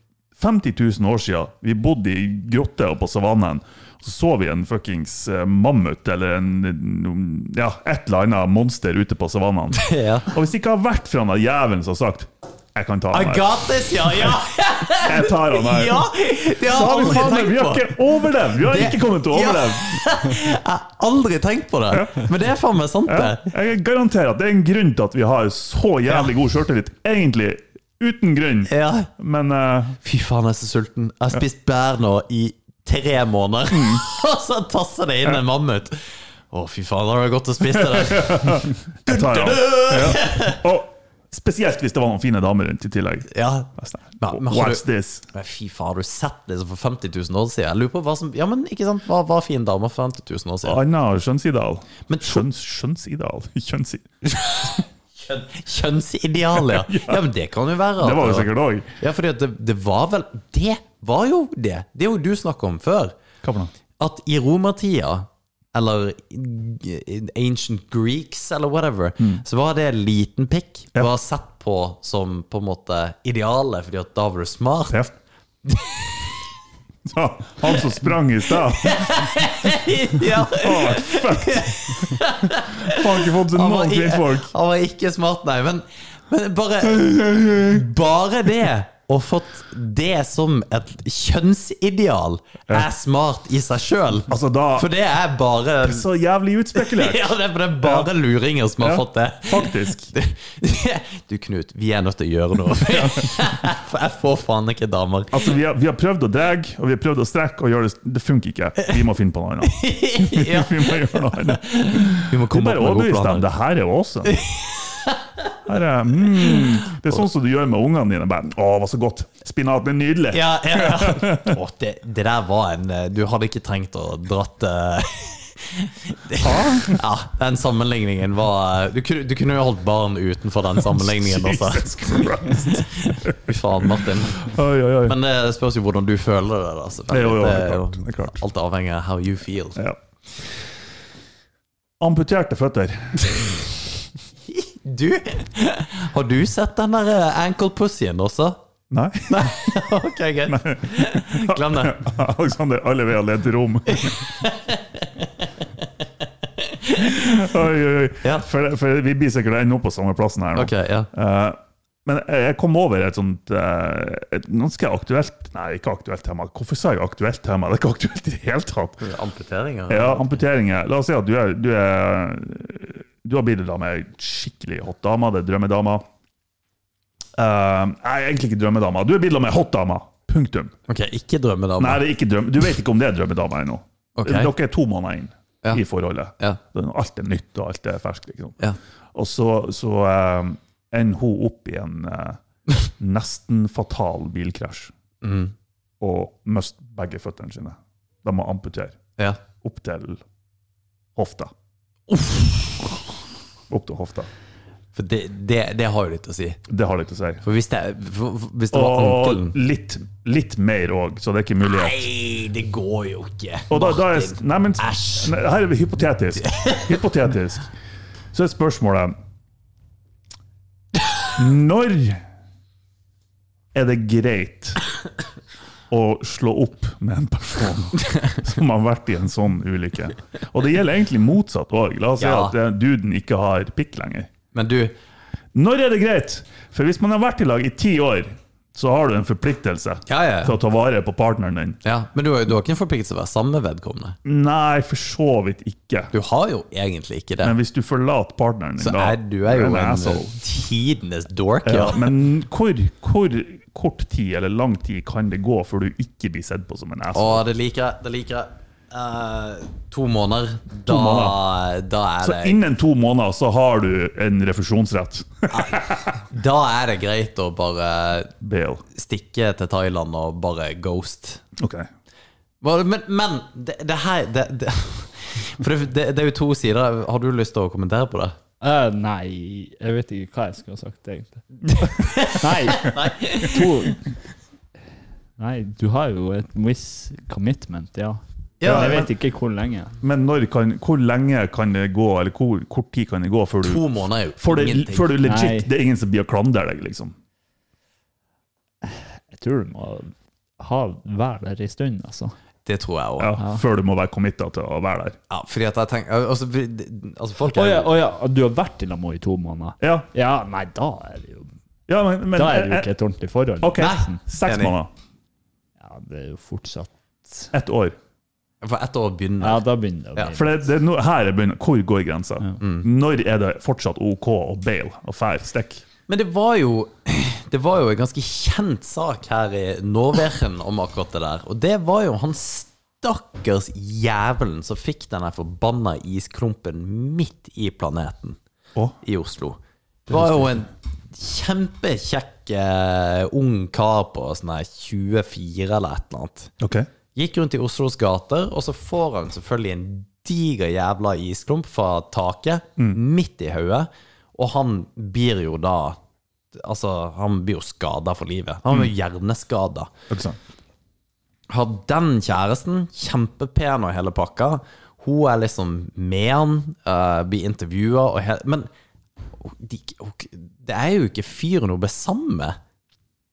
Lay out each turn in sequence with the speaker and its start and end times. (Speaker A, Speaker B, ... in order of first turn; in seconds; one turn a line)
Speaker A: 0.4-13.5
Speaker B: 9.8-10.3
Speaker B: 13.1-23.5
Speaker A: 14.1-14.3
Speaker A: 15.0-20.1
Speaker A: 21.9-22.3
Speaker A: 23.1-30.0
Speaker B: 28.7-29.1
Speaker B: 30.0-40.6
Speaker A: 33.7-34.0
Speaker A: 37.7-45.3
Speaker B: 43.3-50.8
Speaker A: 50.6-54.8
Speaker B: 52.1-52.5
Speaker B: 54.3-63.2
Speaker A: 56.5-57.2
Speaker A: 58.0-58.9
Speaker A: 63.4-63.7
Speaker B: 64.0-75.0
Speaker B: 75.7-76.3
Speaker A: 77.0-79.3
Speaker B: 77.7-96.0
Speaker A: 80.4-84.5
Speaker A: 87.3-87.8
Speaker A: 94.3-94.9
Speaker A: 95.8-98.1
Speaker B: 96.8-105.3
Speaker A: 98.8-100.1
Speaker A: 102.9-103.3
Speaker A: 105.3-114.4
Speaker B: 109.7-113.5
Speaker B: 114.2-115.2
Speaker A: 115.7-121.6
Speaker B: 120.3-134.5
Speaker A: 126.4-127.0
Speaker A: 130.8-135.2
Speaker B: 135.1-139.8
Speaker A: 137.1-138.4
Speaker A: 142.0-143.6
Speaker B: 144.5-148.6
Speaker A: 148.9-149.8
Speaker B: 149.3-152.0
Speaker A: 150.5-154.3
Speaker B: 153.9-155.5
Speaker B: 156.6-157.2
Speaker A: 157.0-169.0
Speaker B: 160.6-161.1
Speaker B: 169.0-170.4
Speaker A: 169.9-176.1
Speaker A: 177.4-180.7
Speaker B: 180.9-182.0
Speaker A: 181.8-188.6
Speaker B: 184.2-184.5
Speaker A: 189.1-192.4
Speaker A: 193.0-194.9
Speaker B: 195.2-195.5
Speaker A: 196.0-199.0
Speaker A: 199.6-200.2
Speaker A: 201.2-201.5
Speaker B: 202.1-202.8
Speaker A: 203.7-204.3
Speaker B: 204.9-206.6
Speaker A: 206.7-207.4
Speaker B: 207.4-209.6
Speaker A: 208.7-212.1
Speaker B: 211.6-215.3
Speaker A: 213.7-217.7
Speaker B: 216.4-216.9
Speaker A: 218.3-219.1
Speaker A: 221.4-222.2
Speaker A: 223.7-224.8
Speaker A: 225.9-234.3
Speaker B: 228.1-228.3
Speaker B: 232.2-232.6
Speaker B: 234.5-234.9
Speaker A: 235.5-241.8
Speaker B: 240.1-240.6
Speaker B: 241.8-244.2
Speaker A: 244.2-246.1
Speaker B: 246.1-247.6
Speaker A: 247.4-250.3
Speaker B: 248.8-252.1
Speaker A: 251.7-257.4
Speaker B: 257.1-262.6
Speaker A: 260.9-261.4
Speaker A: 262.2-266.1
Speaker B: 265.5-268.3
Speaker A: 268.4-268.8
Speaker B: 268.9-271.4
Speaker A: 271.6-271.9
Speaker B: 272.6-278.4
Speaker C: 278.6-281.4
Speaker B: 281.7-283.7
Speaker C: 282.2-284.1
Speaker C: 285.4-289.9
Speaker B: 288.6-289.0
Speaker A: 288.6-289.1
Speaker A: 290.0-293.8
Speaker B: 293.6-295.2
Speaker A: 294.4-297.1
Speaker C: 295.2-295.7
Speaker C: 298.8-302.3
Speaker B: 302.7-303.3
Speaker A: 303.2-305.2
Speaker B: 305.3-307.9
Speaker C: 307.5-311.5
Speaker A: 309.8-310.1
Speaker A: 311.9-312.9
Speaker C: 312.3-314.2
Speaker A: 313.6-314.9
Speaker B: 313.8-314.8
Speaker C: 315.8-317.5
Speaker A: 317.5-318.0
Speaker B: 318.6-319.6
Speaker C: 319.4-320.6
Speaker A: 320.3-325.8
Speaker B: 322.6-322.9
Speaker B: 326.1-338.4
Speaker B: 339.0-346.5
Speaker A: 340.1-340.6
Speaker A: 346.6-346.9
Speaker B: 347.1-356.0
Speaker B: 356.5-359.9
Speaker A: 360.1-360.4
Speaker B: 361.5-368.7
Speaker B: 369.4-372.6